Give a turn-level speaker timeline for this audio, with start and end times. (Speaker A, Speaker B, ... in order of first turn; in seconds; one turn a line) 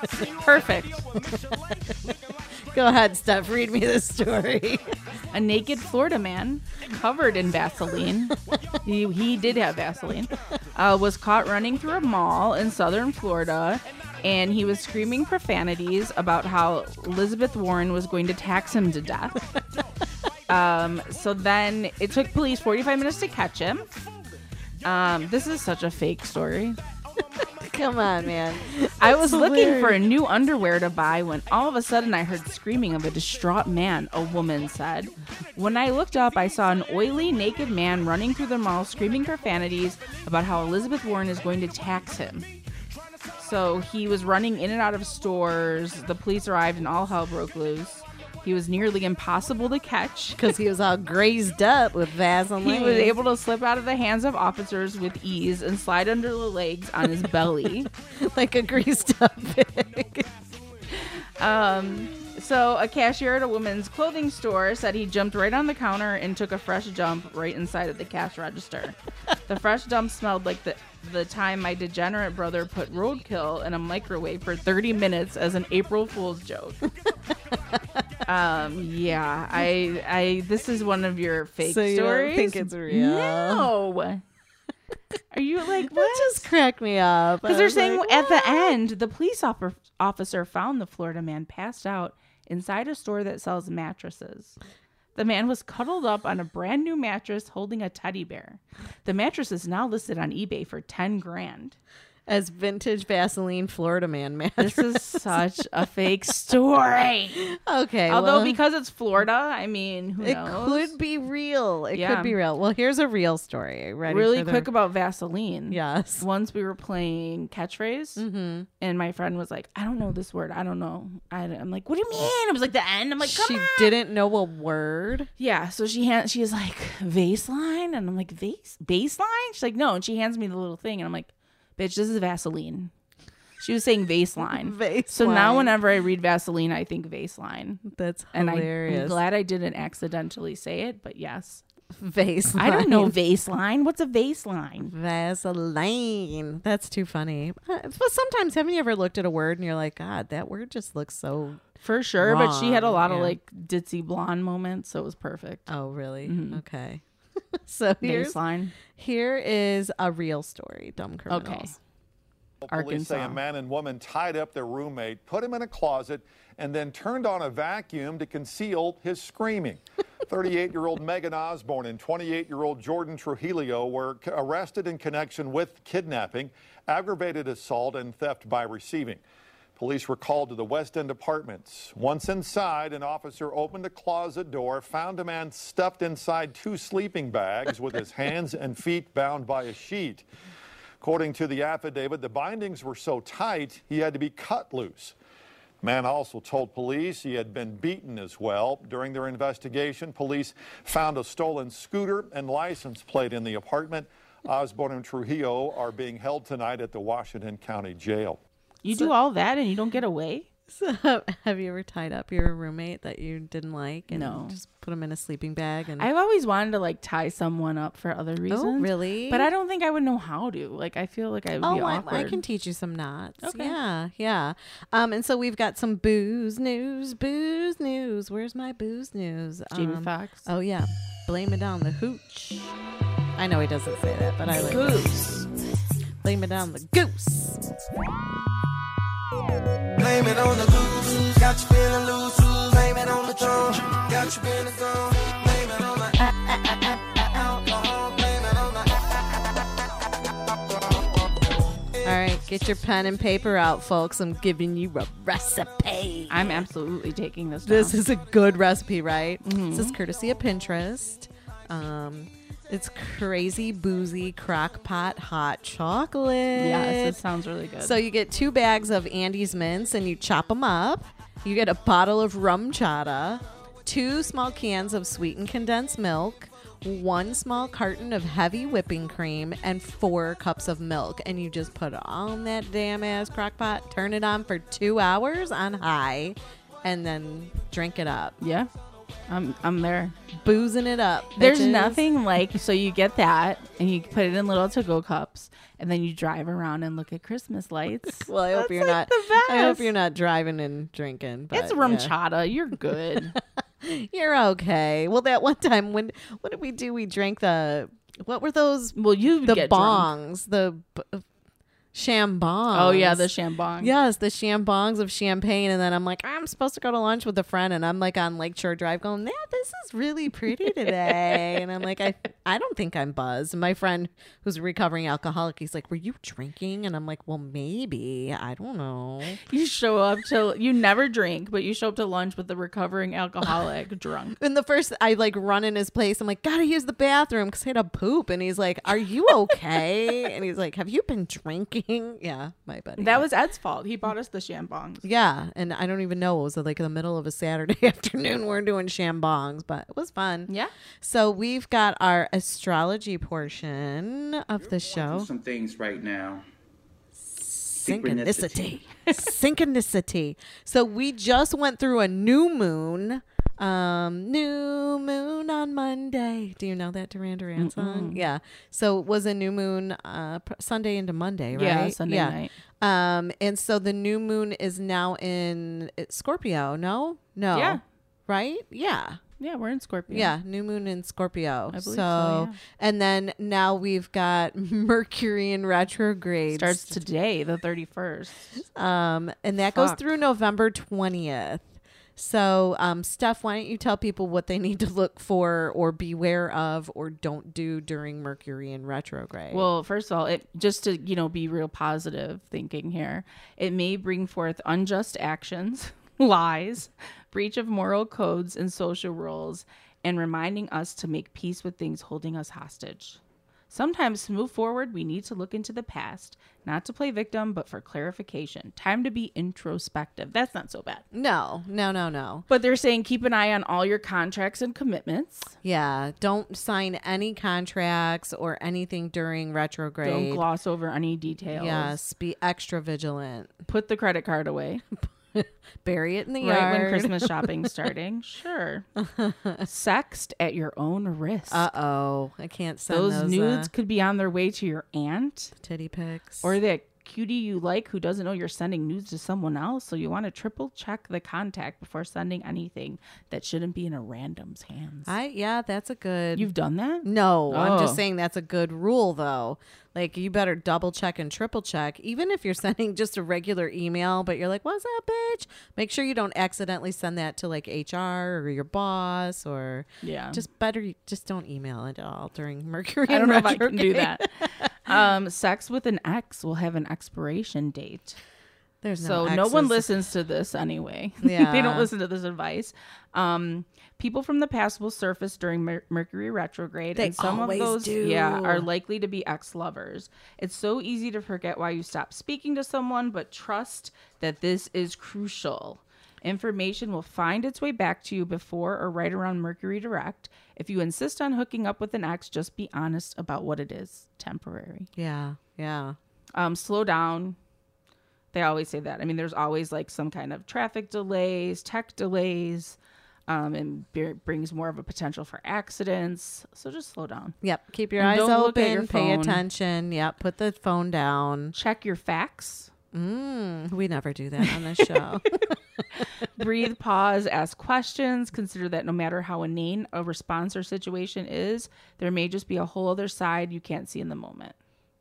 Speaker A: 0.4-1.0
Speaker B: 2.7-4.9
Speaker A: 5.3-19.4
Speaker A: 20.5-23.9
Speaker A: 24.8-26.8
Speaker B: 27.6-30.0
Speaker A: 29.0-42.5
Speaker A: 43.4-50.5
Speaker B: 50.4-53.2
Speaker A: 52.6-57.9
Speaker B: 57.8-60.3
Speaker A: 60.9-76.8
Speaker A: 78.2-84.2
Speaker B: 81.6-83.7
Speaker A: 85.3-86.5
Speaker B: 85.8-88.8
Speaker A: 87.4-94.5
Speaker A: 95.2-101.8
Speaker B: 102.3-105.3
Speaker A: 104.6-107.5
Speaker B: 107.4-108.6
Speaker A: 108.1-110.9
Speaker B: 110.2-114.7
Speaker A: 111.9-112.3
Speaker A: 114.1-118.2
Speaker B: 115.7-116.2
Speaker B: 118.2-118.7
Speaker A: 118.8-123.9
Speaker B: 123.2-125.3
Speaker A: 125.4-132.9
Speaker A: 133.6-137.8
Speaker B: 134.4-135.8
Speaker B: 137.8-139.2
Speaker A: 138.3-141.6
Speaker B: 142.0-143.2
Speaker A: 142.6-144.9
Speaker B: 144.8-151.6
Speaker A: 151.8-155.7
Speaker B: 152.2-153.4
Speaker B: 155.7-158.4
Speaker A: 156.2-156.6
Speaker A: 158.0-158.7
Speaker B: 158.9-161.8
Speaker A: 161.3-161.7
Speaker C: 162.6-179.2
Speaker A: 162.7-163.4
Speaker C: 179.8-190.2
Speaker C: 191.0-195.1
Speaker C: 195.8-208.4
Speaker A: 208.8-210.5
Speaker B: 210.7-216.1
Speaker A: 214.1-214.6
Speaker A: 216.0-222.4
Speaker B: 218.5-219.5
Speaker B: 221.6-232.7
Speaker A: 223.4-223.8
Speaker A: 229.7-230.5
Speaker B: 233.3-235.4
Speaker A: 234.6-235.4
Speaker B: 236.2-237.6
Speaker D: 240.0-246.1
Speaker B: 246.2-247.4
Speaker D: 247.3-248.8
Speaker B: 252.0-256.6
Speaker A: 256.3-258.0
Speaker B: 257.6-267.2
Speaker A: 259.4-259.9
Speaker A: 266.5-268.0
Speaker B: 267.8-288.4
Speaker A: 288.4-288.7
Speaker A: 289.3-290.1
Speaker B: 290.3-292.0
Speaker A: 291.4-299.9
Speaker B: 298.2-302.1
Speaker A: 301.5-303.3
Speaker B: 303.4-311.2
Speaker A: 308.9-310.1
Speaker B: 311.9-329.4
Speaker A: 312.7-313.9
Speaker A: 329.4-334.4
Speaker B: 334.4-343.2
Speaker A: 343.0-345.0
Speaker B: 345.0-355.3
Speaker E: 354.9-356.4
Speaker B: 357.3-379.2
Speaker E: 357.8-358.8
Speaker A: 367.6-368.2
Speaker A: 371.5-372.5
Speaker A: 377.5-377.8
Speaker A: 379.4-380.3
Speaker B: 380.1-387.0
Speaker A: 381.7-382.6
Speaker A: 386.5-388.6
Speaker B: 388.6-399.7
Speaker A: 389.7-390.0
Speaker A: 399.5-413.2
Speaker A: 413.7-421.0
Speaker B: 421.1-422.4
Speaker A: 422.5-425.5
Speaker B: 425.6-430.4
Speaker A: 430.0-432.0
Speaker B: 431.5-433.5
Speaker A: 433.6-434.8
Speaker B: 435.0-437.7
Speaker A: 436.4-438.9
Speaker B: 439.0-439.6
Speaker A: 439.6-441.7
Speaker B: 441.5-443.7
Speaker A: 442.9-445.5
Speaker B: 445.6-446.5
Speaker A: 446.4-455.1
Speaker B: 455.1-456.5
Speaker A: 456.4-458.0
Speaker B: 457.0-474.9
Speaker A: 470.0-470.4
Speaker A: 473.1-478.2
Speaker B: 478.8-479.9
Speaker A: 479.0-504.9
Speaker B: 481.2-481.9
Speaker B: 486.9-488.7
Speaker B: 504.9-506.0
Speaker A: 506.3-507.4
Speaker A: 508.3-512.8
Speaker A: 513.3-517.4
Speaker B: 517.4-521.5
Speaker A: 518.0-519.4
Speaker A: 521.5-522.7
Speaker B: 522.9-525.5
Speaker A: 526.4-534.5